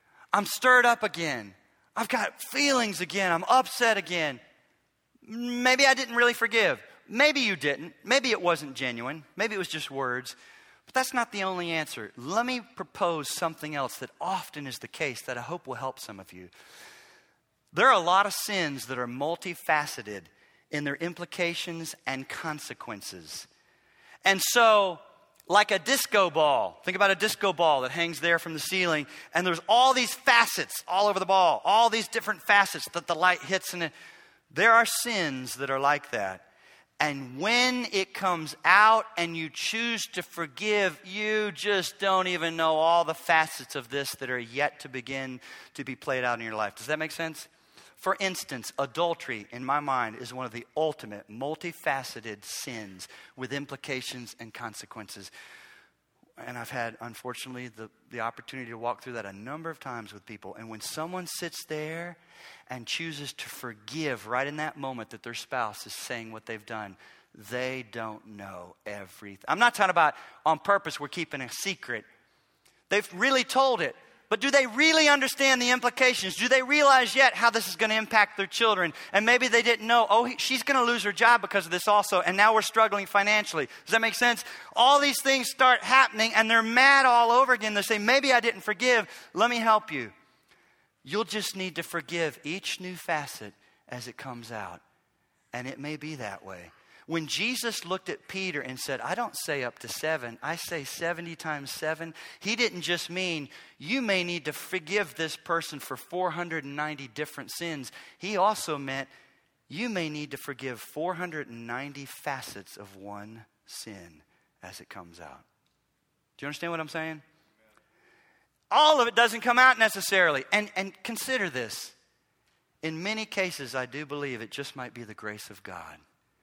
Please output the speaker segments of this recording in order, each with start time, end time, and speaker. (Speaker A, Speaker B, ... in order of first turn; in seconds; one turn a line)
Speaker A: 0.3-4.4
Speaker A: 5.2-10.4
Speaker A: 10.9-16.5
Speaker A: 17.7-23.5
Speaker A: 24.2-33.9
Speaker A: 34.5-36.5
Speaker A: 37.0-55.3
Speaker A: 56.4-62.2
Speaker A: 62.7-72.1
Speaker A: 72.9-90.1
Speaker A: 91.0-94.8
Speaker A: 95.5-109.1
Speaker A: 109.7-115.5
Speaker A: 116.4-117.2
Speaker A: 118.7-122.0
Speaker A: 122.8-126.0